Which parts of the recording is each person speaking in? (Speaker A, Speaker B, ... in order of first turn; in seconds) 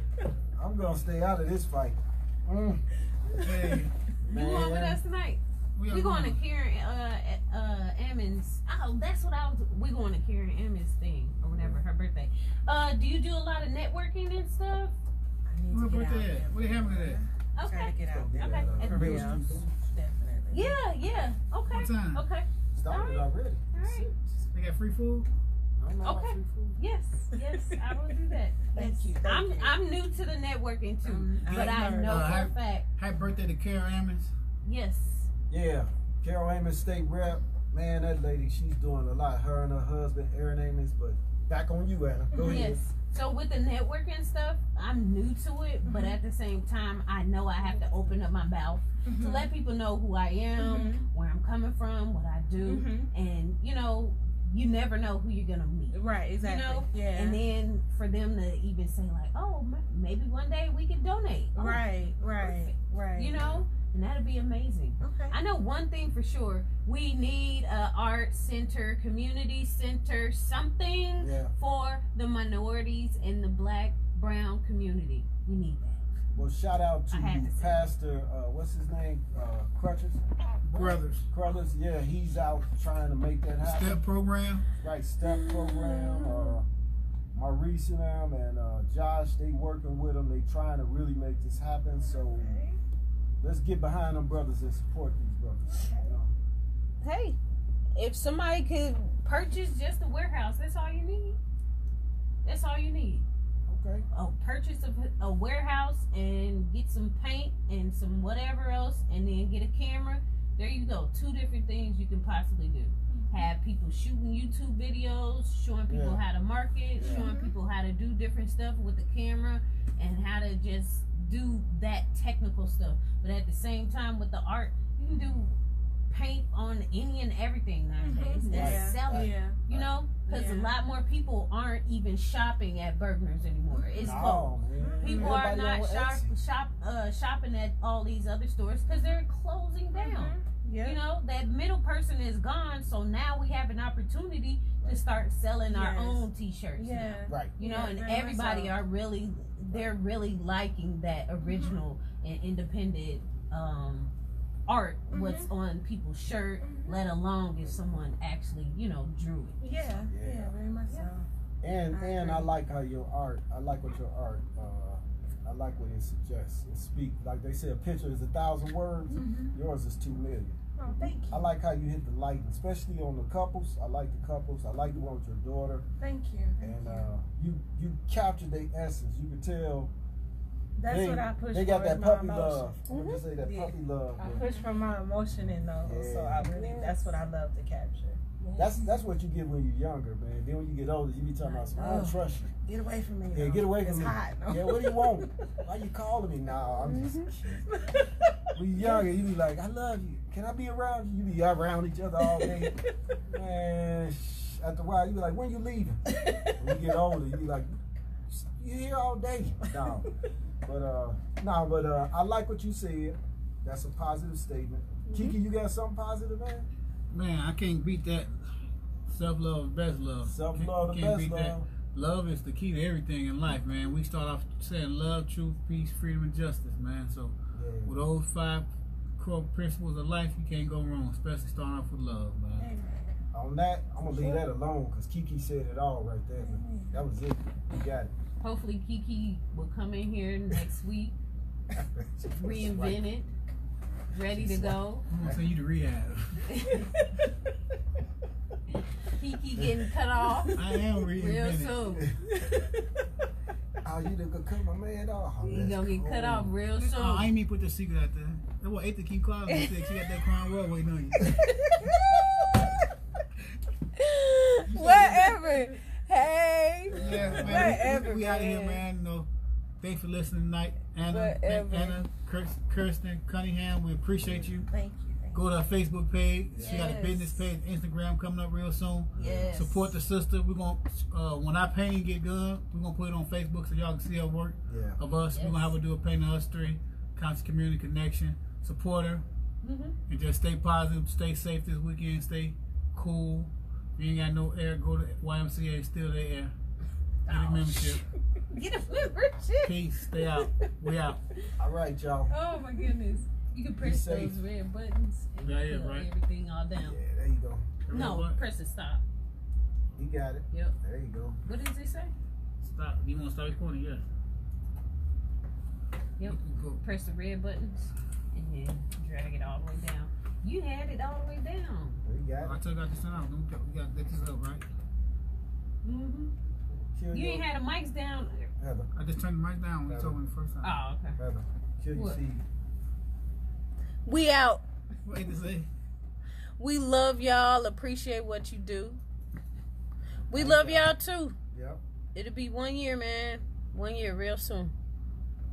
Speaker A: 0.6-3.4, 4.2-5.0, 11.4-11.8, 18.1-19.7, 22.7-24.4, 25.8-26.8, 35.5-42.8, 63.3-63.7, 71.2-71.5, 76.3-84.0, 84.8-86.7, 87.3-92.6, 93.4-96.3, 103.7-104.0, 115.9-116.2, 117.0-117.3, 128.5-129.9, 134.0-136.3, 147.3-147.5, 160.1-160.5, 161.6-170.6, 171.3-175.8, 176.6-179.9, 180.9-184.5, 185.8-186.5, 188.6-192.5, 193.3-197.7, 198.5-202.8, 203.3-206.1, 206.6-207.8, 208.3-210.1, 210.7-216.7, 220.2-221.7, 227.5-228.0, 233.3-238.1, 241.7-243.1, 244.3-245.5, 249.6-249.8, 253.8-256.5, 266.9-267.9, 274.2-274.6, 276.5-276.9, 279.1-279.5, 284.7-285.0, 301.6-302.3, 303.8-304.4, 306.8-308.1, 310.0-311.4, 322.0-322.6, 326.5-327.5, 328.6-328.9, 329.9-330.2, 331.2-332.4, 340.3-340.9, 341.5-341.8
Speaker B: 3.4-3.9, 5.8-6.4, 15.7-17.2, 18.9-19.4, 21.7-22.2, 24.5-25.3, 31.5-34.3, 80.7-81.3, 83.6-84.7, 217.1-218.4, 219.1-232.7, 245.1-246.5, 250.5-252.1, 256.8-261.9, 264.7-265.3, 266.9-269.3, 269.8-274.7, 275.3-289.2, 290.1-296.5, 297.3-298.0, 299.6-301.2, 305.4-306.1, 307.9-308.4, 312.6-314.1, 316.2-316.8, 322.4-324.7, 328.9-330.8, 335.1-335.7
Speaker C: 3.5-3.8, 15.5-20.8, 27.3-27.8, 28.7-29.8, 31.0-32.4, 42.3-42.6, 45.9-46.2, 47.6-47.9, 49.0-49.5, 50.6-51.0, 52.6-53.1, 55.9-57.4, 61.5-63.4, 65.0-65.3, 92.0-92.8, 95.7-96.2, 113.1-113.5, 117.0-117.5, 128.0-129.6, 130.3-130.7, 133.7-135.5, 139.9-141.0, 145.7-146.2, 146.8-148.7, 151.4-151.8, 155.1-155.5, 156.6-156.9, 159.6-161.3, 161.9-162.5, 169.1-169.6, 170.8-171.5, 176.0-177.1, 180.8-182.8, 183.4-188.8, 191.4-195.6, 197.7-198.5, 202.2-202.9, 206.1-206.9, 232.6-233.2, 236.4-237.0, 252.3-252.9, 274.7-275.4
Speaker D: 4.3-14.9, 17.6-19.4, 20.5-24.1, 26.0-32.9, 34.6-35.3, 42.4-76.0, 77.1-77.8, 85.2-86.6, 97.0-97.4, 98.0-101.4, 102.4-103.3, 104.1-125.6, 126.1-154.1, 154.7-159.6, 182.9-183.3, 186.4-187.1, 188.4-188.7, 191.8-192.1, 196.8-197.3, 215.1-215.4, 238.4-241.2, 242.3-243.3, 244.1-245.1, 246.5-246.9, 249.1-250.6, 251.2-252.1, 255.4-257.3, 259.5-260.1, 261.5-262.9, 264.0-268.8, 271.1-272.0, 276.6-277.5, 279.2-279.9, 285.3-285.7, 289.6-290.0, 297.3-298.0, 298.5-299.8, 302.3-307.0, 307.9-309.0, 311.4-312.1, 316.2-322.0, 325.8-326.3, 327.1-328.5, 330.6-331.2, 331.9-332.2, 334.1-334.6, 336.6-339.0, 340.3-341.4, 342.1-344.7